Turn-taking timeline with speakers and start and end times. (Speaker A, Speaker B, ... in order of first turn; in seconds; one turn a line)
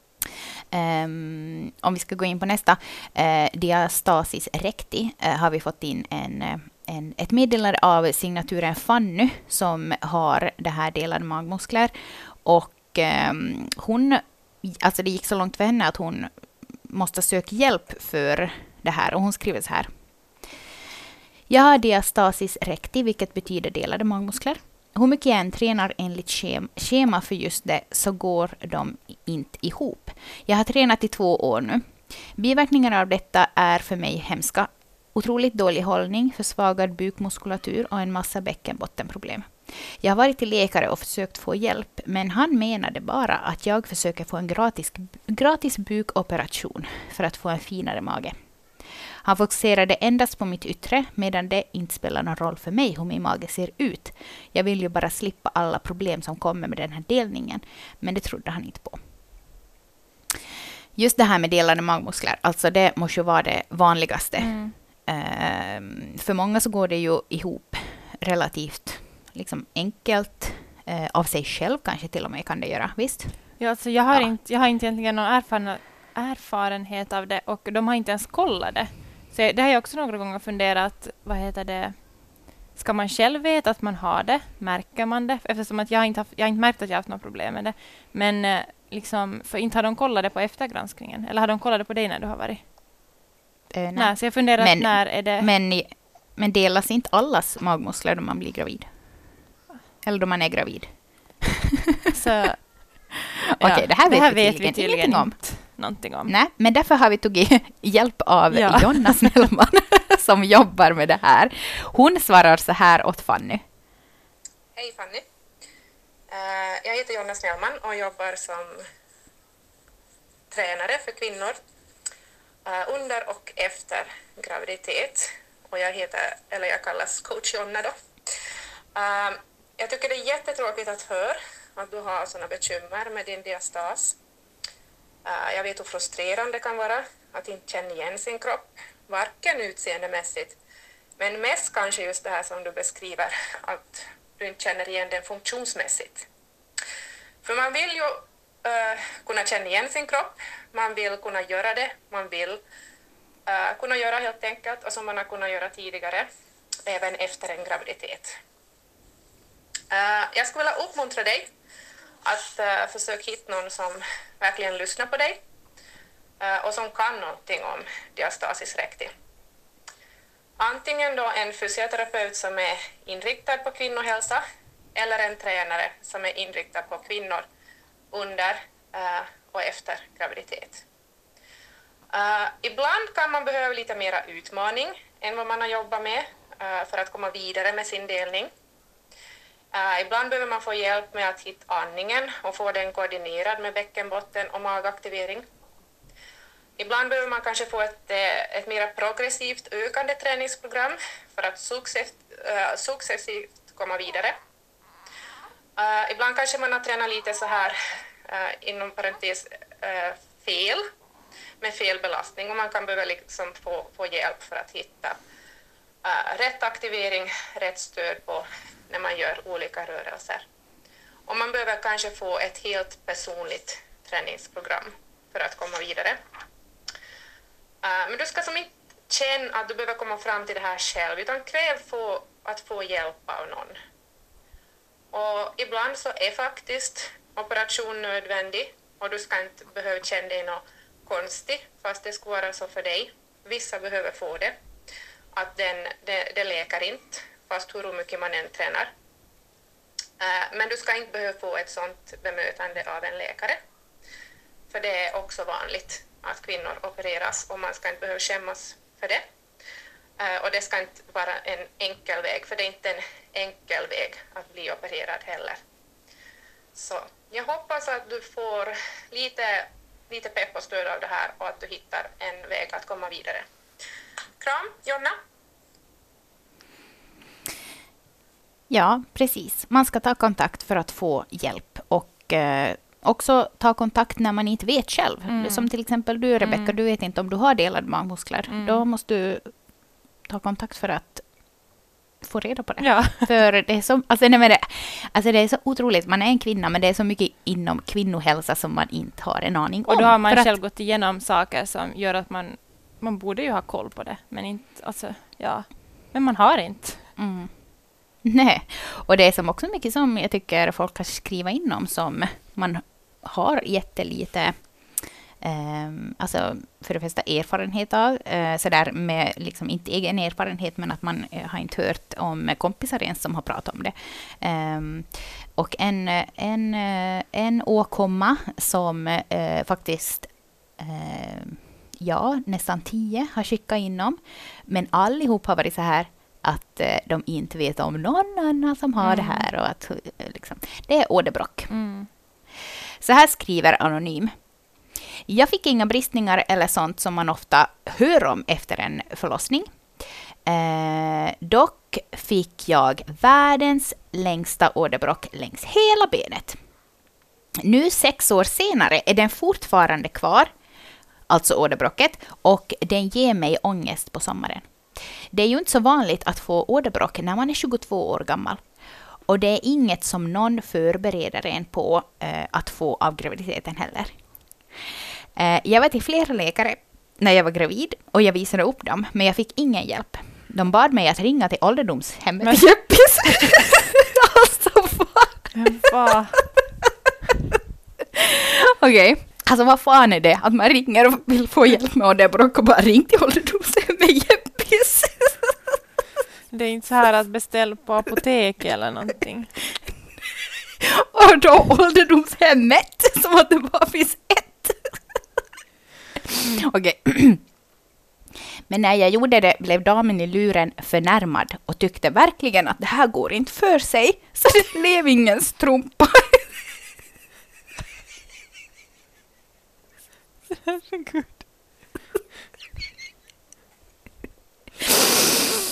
Speaker A: 0.7-19.9
Speaker A: 21.5-48.5
Speaker A: 49.2-59.0
Speaker A: 61.0-74.3
Speaker B: 64.4-64.7
Speaker B: 73.6-92.7
Speaker A: 93.7-99.3
Speaker B: 93.9-95.5
Speaker A: 100.0-101.6
Speaker B: 102.1-106.3
Speaker A: 103.6-113.6
Speaker B: 108.5-109.3
Speaker C: 114.8-115.2
Speaker C: 116.3-118.8
Speaker C: 120.5-121.6
Speaker C: 122.6-127.9
Speaker C: 128.9-134.2
Speaker C: 135.2-140.6
Speaker C: 141.2-146.3
Speaker C: 147.4-152.6
Speaker C: 153.5-156.3
Speaker C: 156.8-158.3
Speaker C: 159.9-161.5
Speaker C: 162.2-165.4
Speaker C: 166.4-169.1
Speaker C: 170.6-174.4
Speaker C: 174.9-177.4
Speaker C: 178.1-180.8
Speaker C: 182.1-188.5
Speaker C: 189.7-195.4
Speaker C: 196.8-204.3
Speaker C: 205.8-207.7
Speaker C: 208.2-210.8
Speaker C: 211.6-215.2
Speaker C: 216.0-220.4
Speaker C: 221.3-226.2
Speaker C: 227.8-233.8
Speaker C: 235.1-244.6
Speaker C: 245.3-248.9
Speaker C: 250.2-253.6
Speaker C: 254.7-259.2
Speaker C: 260.2-265.6
Speaker C: 266.7-273.4
Speaker C: 274.4-275.1
Speaker A: 278.7-289.7
Speaker B: 285.3-285.7
Speaker B: 286.4-286.7
Speaker B: 288.5-288.8
Speaker A: 290.2-300.6
Speaker B: 292.8-293.3
Speaker B: 299.9-307.1
Speaker A: 307.2-307.7
Speaker A: 308.2-341.7
Speaker B: 339.0-339.5
Speaker B: 341.7-342.1
Speaker A: 342.6-344.4
Speaker A: 345.2-356.6
Speaker A: 357.6-360.5
Speaker A: 361.3-368.6
Speaker A: 369.3-374.2
Speaker A: 374.9-385.9
Speaker B: 382.4-383.5
Speaker B: 385.5-386.4
Speaker A: 386.4-386.9
Speaker A: 388.1-395.8
Speaker B: 396.5-399.5
Speaker A: 400.8-405.2
Speaker A: 406.2-407.4
Speaker A: 408.7-416.5
Speaker B: 420.6-421.4